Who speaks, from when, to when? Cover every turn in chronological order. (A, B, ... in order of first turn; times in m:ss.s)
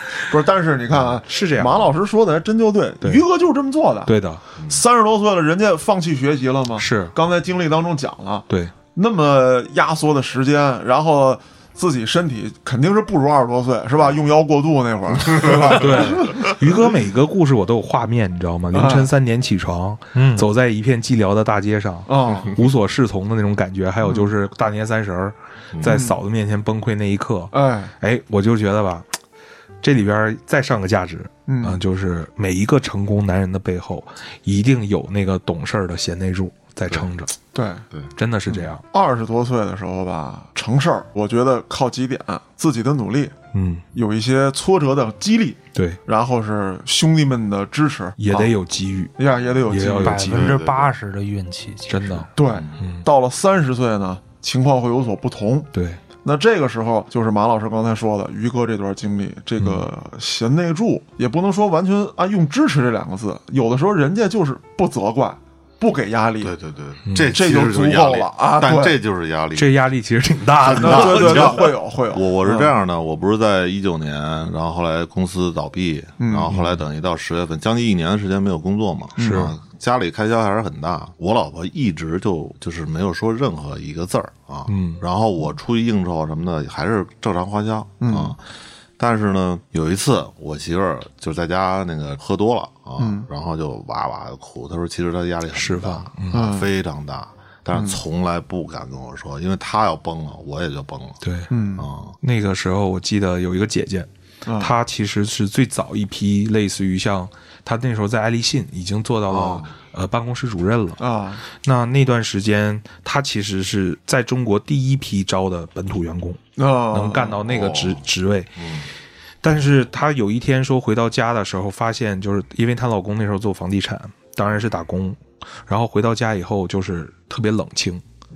0:00.3-0:16.6 A
0:01.3-0:01.9 B
0:04.1-0:04.4 B
0:06.8-0:07.1 B
0:08.5-0:08.8 B
0:15.7-0:29.1 B
0:18.7-0:19.1 A
0:20.1-0:20.5 C
0:22.1-0:22.5 A
0:24.0-0:24.3 A
0:25.8-0:26.2 A
0:27.5-0:27.9 A
0:29.8-0:37.4 B
0:31.5-0:31.8 A
0:37.5-0:37.8 A
0:38.2-0:38.8 B
0:38.5-0:43.4 A
0:43.5-0:43.8 B
0:43.9-0:48.5 A
0:45.7-0:46.0 B
0:48.2-0:49.1 B
0:49.2-0:50.3 A
0:49.7-0:50.6 B
0:50.0-0:52.3 C
0:50.3-0:50.9 D
0:51.9-0:53.1 B
0:52.4-0:55.7 A
0:52.5-0:52.8 D
0:55.7-0:56.0 B
0:56.2-1:06.5 A
0:59.6-0:59.9 B
1:06.4-1:09.8 D
1:07.1-1:07.4 B
1:07.3-1:09.0 A
1:09.6-1:11.7 B
1:10.6-1:28.4 D
1:10.8-1:12.7 A
1:16.2-1:16.5 A
1:16.5-1:16.8 B
1:19.2-1:19.5 A
1:19.2-1:19.6 B
1:24.7-1:25.0 B
1:28.0-1:28.4 A
1:29.0-1:41.2 D
1:33.0-1:33.3 A
1:35.5-1:36.5 B
1:36.3-1:36.7 A
1:37.7-1:38.0 A
1:41.2-1:41.5 B
1:41.5-1:41.9 A
1:41.8-1:42.2 D
1:42.2-1:58.6 B
1:44.4-1:44.7 A
1:49.3-1:49.7 D
1:51.0-1:51.4 A
1:56.6-1:57.4 A
1:57.5-1:58.0 D
1:58.6-1:58.9 D
1:59.4-2:08.0 B